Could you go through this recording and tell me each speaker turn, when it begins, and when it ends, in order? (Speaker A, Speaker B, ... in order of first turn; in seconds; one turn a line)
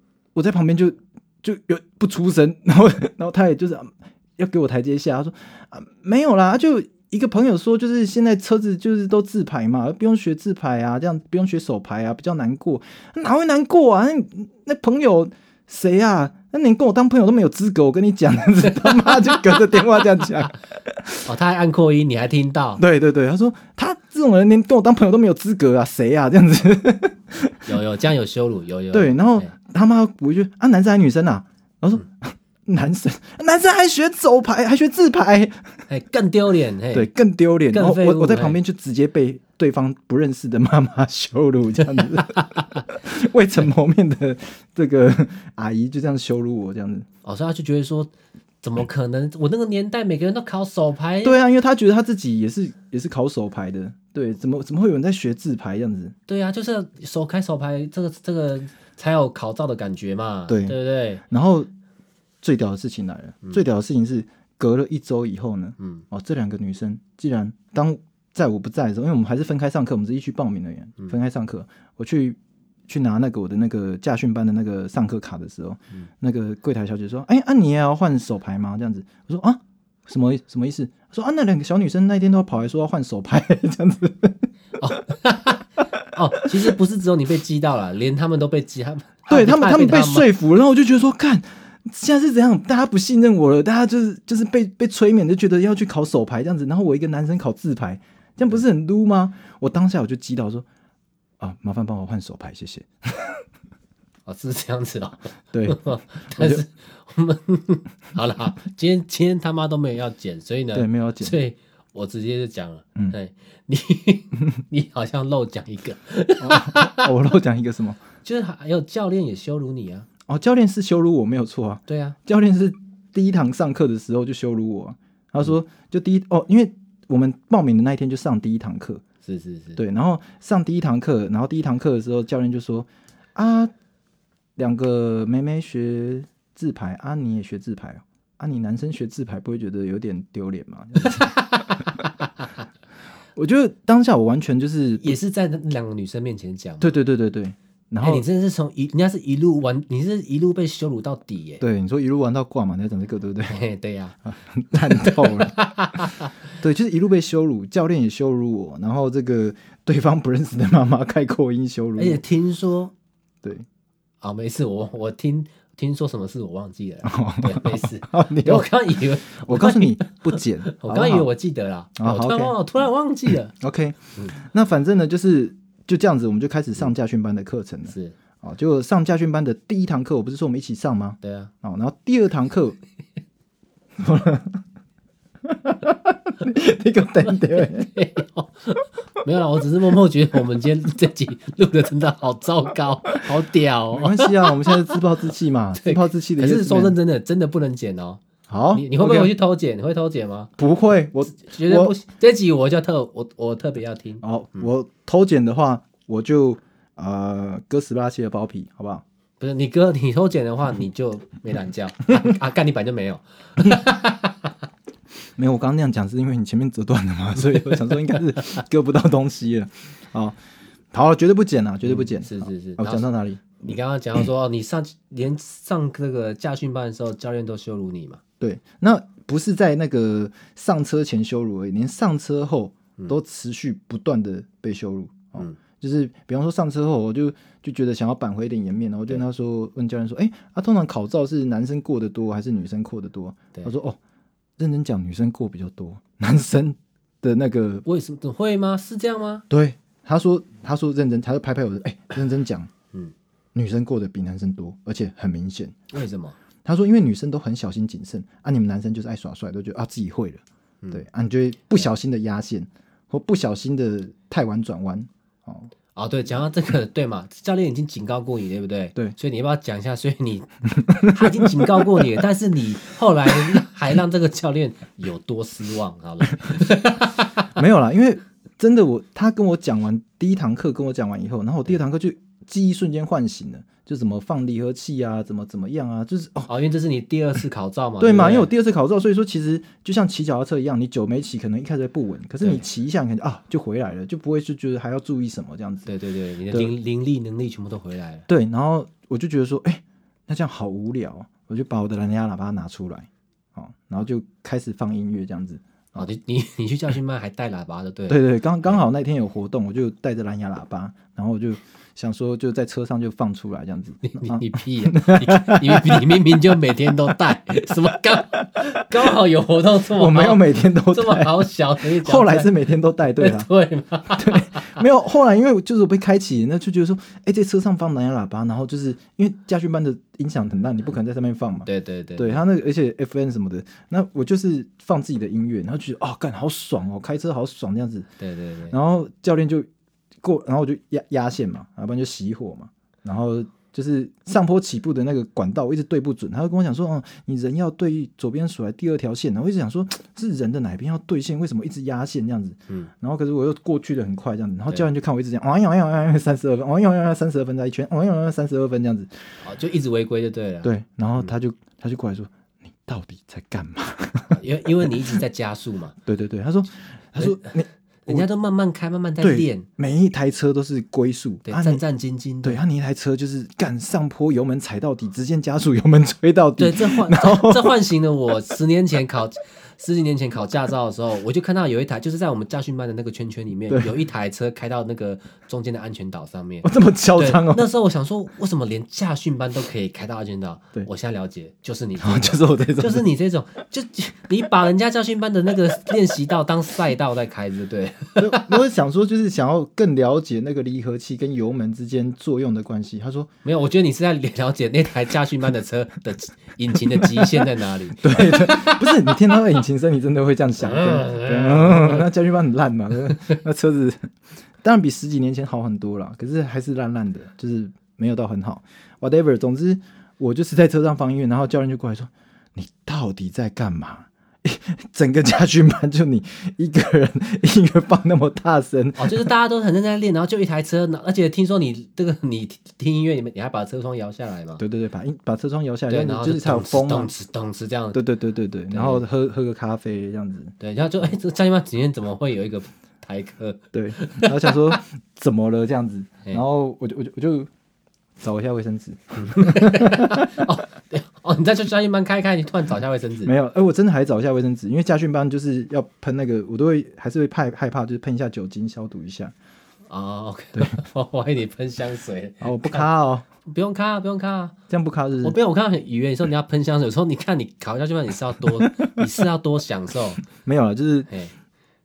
Speaker A: 0.3-21.2
Speaker B: 18.8-19.6
Speaker B: 21.2-22.8
Speaker A: 22.8-27.6
Speaker B: 27.6-29.5
Speaker A: 28.9-35.7
Speaker B: 35.9-37.1
Speaker A: 36.9-47.1
Speaker B: 37.7-38.6
Speaker B: 42.2-42.8
Speaker B: 47.2-48.1
Speaker B: 48.6-51.4
Speaker A: 51.2-56.1
Speaker B: 56.3-61.2
Speaker A: 60.5-61.7
Speaker A: 62.4-84.5
Speaker B: 84.8-90.3
Speaker A: 89.3-100.7
Speaker A: 101.4-103.4
Speaker B: 104.2-117.1
Speaker A: 105.5-106.6
Speaker A: 110.7-111.4
Speaker A: 116.4-118.0
Speaker B: 118.2-120.1
Speaker A: 120.3-129.0
Speaker B: 121.9-122.2
Speaker B: 129.2-129.8
Speaker A: 129.8-133.7
Speaker A: 134.6-141.3
Speaker B: 141.0-142.1
Speaker A: 143.4-145.2
Speaker B: 145.0-146.9
Speaker A: 146.8-148.2
Speaker B: 148.0-151.6
Speaker A: 151.6-153.6
Speaker B: 153.5-154.2
Speaker A: 154.2-155.6
Speaker B: 154.9-156.3
Speaker A: 156.6-162.2
Speaker B: 162.0-162.9
Speaker B: 164.2-173.6
Speaker A: 167.0-168.7
Speaker A: 169.3-171.3
Speaker A: 172.0-172.6
Speaker A: 173.6-182.8
Speaker B: 177.9-178.1
Speaker B: 181.2-181.5
Speaker A: 184.0-184.6
Speaker A: 185.4-187.9
Speaker B: 187.6-195.0
Speaker A: 193.9-196.9
Speaker B: 195.8-198.2
Speaker A: 198.5-199.3
Speaker B: 198.7-200.5
Speaker A: 200.6-201.9
Speaker B: 201.3-204.7
Speaker A: 204.2-209.0
Speaker B: 209.4-214.5
Speaker A: 215.4-220.4
Speaker B: 217.6-218.2
Speaker A: 220.9-223.6
Speaker B: 221.8-223.1
Speaker B: 223.6-228.2
Speaker A: 228.4-244.0
Speaker A: 244.6-247.8
Speaker B: 247.9-249.4
Speaker A: 249.5-252.7
Speaker A: 253.6-255.8
Speaker B: 255.9-256.4
Speaker A: 256.6-265.7
Speaker B: 265.9-277.5
Speaker A: 270.9-271.9
Speaker A: 277.6-286.5
Speaker B: 286.5-288.5
Speaker A: 288.0-295.9
Speaker B: 295.9-298.3
Speaker A: 298.3-306.1
Speaker B: 305.9-308.8
Speaker A: 308.1-316.3
Speaker B: 314.0-324.8
Speaker A: 319.9-323.5
Speaker A: 324.1-338.1
Speaker B: 331.6-332.4
Speaker B: 338.2-338.7
Speaker A: 338.7-339.7
Speaker A: 340.2-359.1
Speaker B: 359.4-361.3
Speaker A: 360.6-362.3
Speaker A: 362.8-364.9
Speaker B: 364.3-365.9
Speaker A: 366.1-368.3
Speaker B: 367.2-367.5
Speaker B: 368.1-369.6
Speaker A: 369.2-371.8
Speaker B: 371.4-372.6
Speaker A: 372.4-377.7
Speaker B: 376.6-398.5
Speaker A: 386.6-387.6
Speaker A: 392.0-393.1
Speaker A: 398.2-403.3
Speaker B: 403.4-408.8
Speaker A: 408.0-414.1
Speaker B: 410.6-412.1
Speaker A: 414.6-429.3
Speaker B: 429.0-434.6
Speaker A: 434.6-437.1
Speaker B: 435.9-438.0
Speaker A: 437.9-440.5
Speaker B: 438.7-439.1
Speaker B: 440.6-444.6
Speaker A: 443.7-447.5
Speaker A: 448.2-450.3
Speaker B: 449.1-453.3
Speaker A: 453.2-459.3
Speaker B: 459.9-462.9
Speaker A: 462.4-463.2
Speaker B: 463.4-464.6
Speaker A: 464.7-465.4
Speaker B: 465.2-470.2
Speaker A: 470.3-471.1